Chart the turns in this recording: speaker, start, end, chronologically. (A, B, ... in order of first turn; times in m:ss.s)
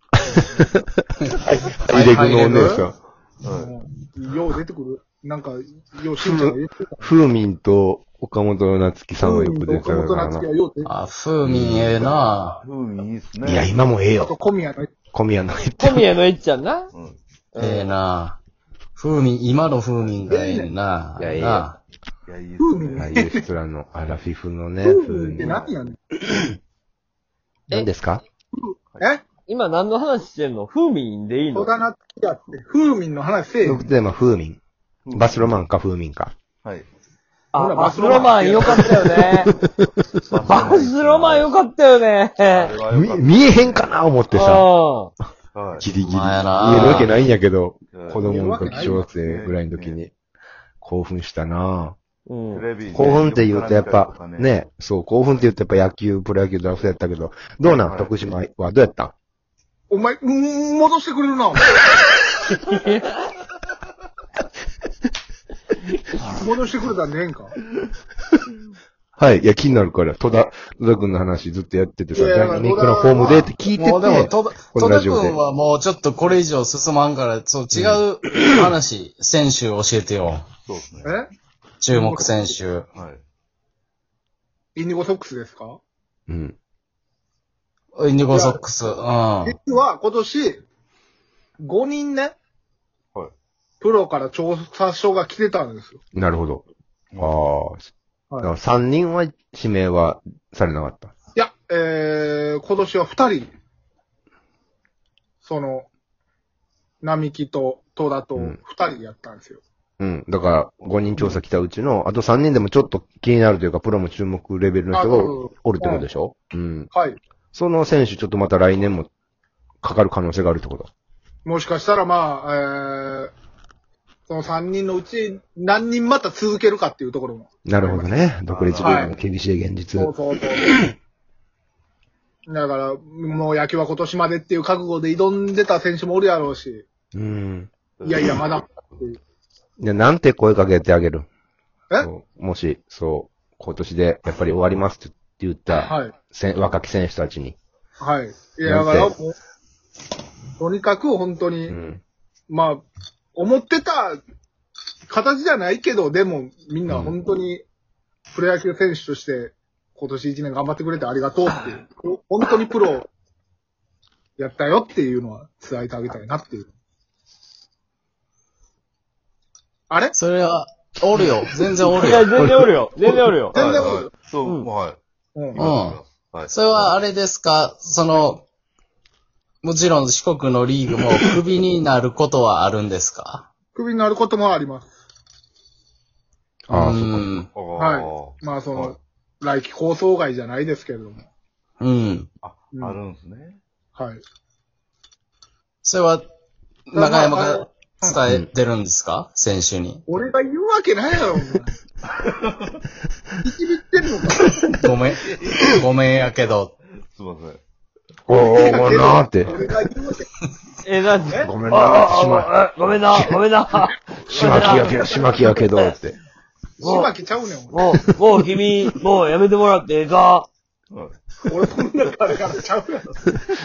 0:00.3-0:00.6 A
0:00.6-0:03.0 B
0:01.3-0:02.9 C
0:03.4-0:03.7 D
0:03.5-0:07.2 A
0:06.2-0:10.5 B
0:09.2-0:10.9 A
0:10.8-0:12.6 C
0:11.4-0:12.2 B
0:12.6-0:13.7 D
0:13.4-0:14.4 B
0:14.2-0:14.9 A
0:15.1-0:16.0 B
0:15.8-0:16.9 E
0:16.9-0:17.2 D
0:17.5-0:17.9 E
0:17.6-0:18.4 C
0:19.0-0:21.8 C
0:20.2-0:20.7 A
0:21.2-0:21.7 B
0:22.3-0:23.2 D
0:22.6-0:23.5 A
0:23.0-0:25.6 B
0:24.8-0:26.0 A
0:25.4-0:25.8 D
0:27.7-0:28.2 B
0:28.5-0:29.2 A
0:29.5-0:31.7 E
0:31.5-0:33.9 A
0:33.6-0:34.6 B
0:35.0-0:35.4 D
0:35.1-0:36.3 B
0:36.6-0:36.9 D
0:37.5-0:39.5 E
0:37.6-0:38.9 A
0:38.6-0:38.9 D
0:39.0-0:40.0 B
0:40.3-0:41.5 D
0:40.4-0:42.7 E
0:42.5-0:43.9 D
0:42.9-0:44.7 B
0:44.3-0:45.1 E
0:45.5-0:45.9 D
0:45.8-0:50.1 B
0:46.0-0:47.2 C
0:47.9-0:50.0 D
0:48.2-0:49.0 A
0:50.8-0:52.0 B
0:52.3-0:52.7 E
0:52.5-0:54.6 D
0:52.9-0:59.1 B
0:57.7-0:58.1 D
0:59.9-1:01.7 A
1:02.5-1:03.2 E
1:06.3-1:07.6 A
1:09.2-1:15.4 B
1:12.1-1:13.5 A
1:13.3-1:20.5 C
1:17.7-1:18.0 B
1:20.6-1:21.2 D
1:21.0-1:21.3 A
1:21.8-1:22.9 C
1:21.9-1:22.5 A
1:23.0-1:23.2 D
1:24.8-1:25.8 A
1:26.3-1:26.6 B
1:28.0-1:29.6 C
1:28.3-1:28.6 A
1:29.4-1:30.6 A
1:31.6-1:32.4 A
1:33.8-1:36.0 A
1:36.1-1:36.6 B
1:37.2-1:37.9 B
1:38.4-1:41.1 B
1:41.4-1:43.5 A
1:45.4-1:45.9 A
1:47.0-1:49.6 A
1:50.0-1:56.9 B
1:51.2-1:51.4 A
1:54.9-1:56.1 A
1:56.9-1:57.2 A
1:57.5-1:59.1 B
1:59.8-2:00.9 B
2:01.4-2:03.3 A
2:04.3-2:08.2 A
2:07.6-2:10.1 B
2:08.5-2:09.2 D
2:08.8-2:09.2 A
2:10.0-2:10.8 A
2:12.5-2:16.9 A
2:17.1-2:17.7 B
2:18.0-2:18.4 D
2:18.0-2:19.2 A
2:19.8-2:21.3 B
2:22.0-2:27.6 B
2:25.7-2:26.1 A
2:28.0-2:29.3 A
2:28.6-2:29.1 B
2:30.6-2:31.8 A
2:31.7-2:32.0 B
2:32.5-2:34.2 A
2:35.1-2:37.6 A
2:36.9-2:37.2 B
2:38.3-2:43.1 A
2:44.4-2:46.7 A
2:49.9-2:50.2 A
2:50.1-2:52.4 C
2:51.2-2:53.2 B
2:51.9-2:53.6 E
2:53.5-2:54.1 A
2:53.6-2:55.0 D
2:55.4-2:55.7 A
2:55.5-2:56.5 D
2:55.6-2:58.4 C
2:59.6-3:03.5 C
3:03.8-3:04.9 A
3:06.7-3:07.4 B
3:06.7-3:07.5 C
3:07.5-3:09.0 D
3:07.8-3:11.3 A
3:11.8-3:12.3 C
3:12.4-3:13.6 D
3:12.7-3:13.0 A
3:14.0-3:14.2 A
3:15.8-3:16.3 C
3:16.9-3:20.0 C
3:16.9-3:18.2 A
3:20.1-3:21.8 A
3:22.1-3:22.8 D
3:23.4-3:24.7 A
3:24.8-3:26.7 C
3:27.1-3:27.6 D
3:28.3-3:29.6 B
3:28.3-3:30.3 A
3:30.8-3:36.0 E
3:31.4-3:32.5 B
3:33.1-3:33.4 B
3:34.3-3:35.2 D
3:34.3-3:36.2 B
3:36.8-3:37.8 A
3:36.8-3:37.2 E
3:37.7-3:40.5 E
3:40.9-3:41.3 D
3:41.5-3:43.3 A